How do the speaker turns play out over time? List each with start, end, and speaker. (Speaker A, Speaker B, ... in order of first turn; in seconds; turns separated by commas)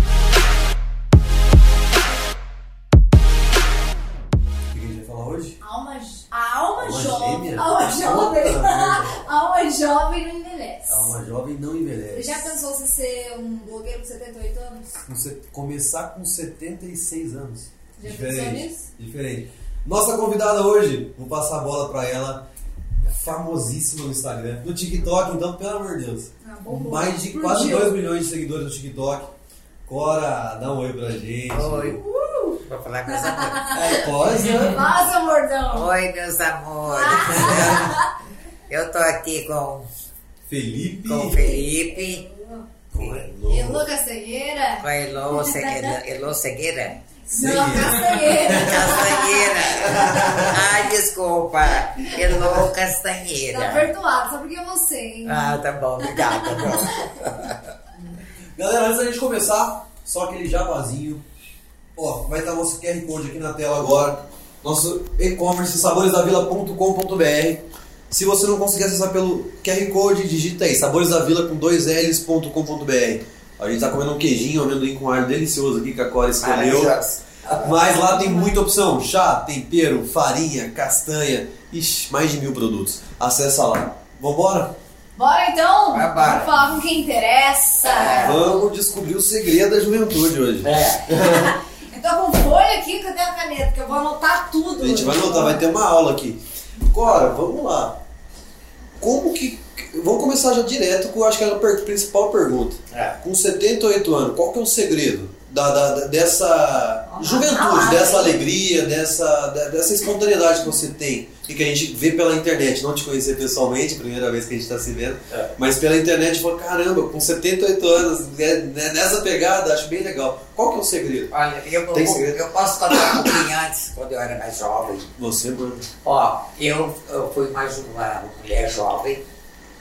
Speaker A: 4.7-5.6, Speaker B: 5.6-11.1, Speaker A: 6.8-9.3, Speaker A: 10.9-12.6, Speaker B: 12.1-15.0, Speaker A: 15.1-22.4, Speaker B: 18.0-18.9, Speaker A: 23.0-29.3, Speaker B: 26.4-28.0, Speaker A: 29.9-32.0, Speaker C: 31.5-32.0, Speaker B: 32.0-35.9, Speaker C: 32.6-33.8, Speaker A: 33.7-34.8, Speaker C: 35.6-38.0, Speaker B: 36.9-38.1, Speaker A: 37.3-37.9, Speaker C: 38.7-39.9, Speaker A: 40.5-41.5, Speaker C: 41.0-42.2, Speaker B: 42.2-42.6, Speaker A: 42.9-43.9, Speaker C: 43.0-43.3, Speaker B: 43.5-46.0, Speaker C: 44.8-47.0, Speaker B: 47.3-50.3, Speaker A: 47.3-49.0, Speaker C: 48.3-53.9, Speaker A: 49.7-50.7, Speaker B: 53.5-57.1, Speaker C: 55.2-57.6, Speaker A: 58.6-61.2, Speaker A: 62.0-77.0, Speaker C: 76.4-77.8, Speaker A: 77.6-84.8, Speaker B: 78.2-78.5, Speaker B: 85.2-88.5, Speaker C: 85.9-86.6, Speaker C: 87.8-88.6, Speaker A: 88.2-91.5, Speaker C: 90.6-91.1, Speaker B: 91.2-95.6, Speaker A: 94.8-98.0, Speaker C: 97.0-97.4, Speaker A: 99.0-121.3, Speaker C: 102.9-103.2, Speaker C: 107.1-108.3, Speaker C: 121.3-125.1, Speaker A: 121.9-122.4, Speaker A: 125.2-125.9, Speaker C: 126.0-129.2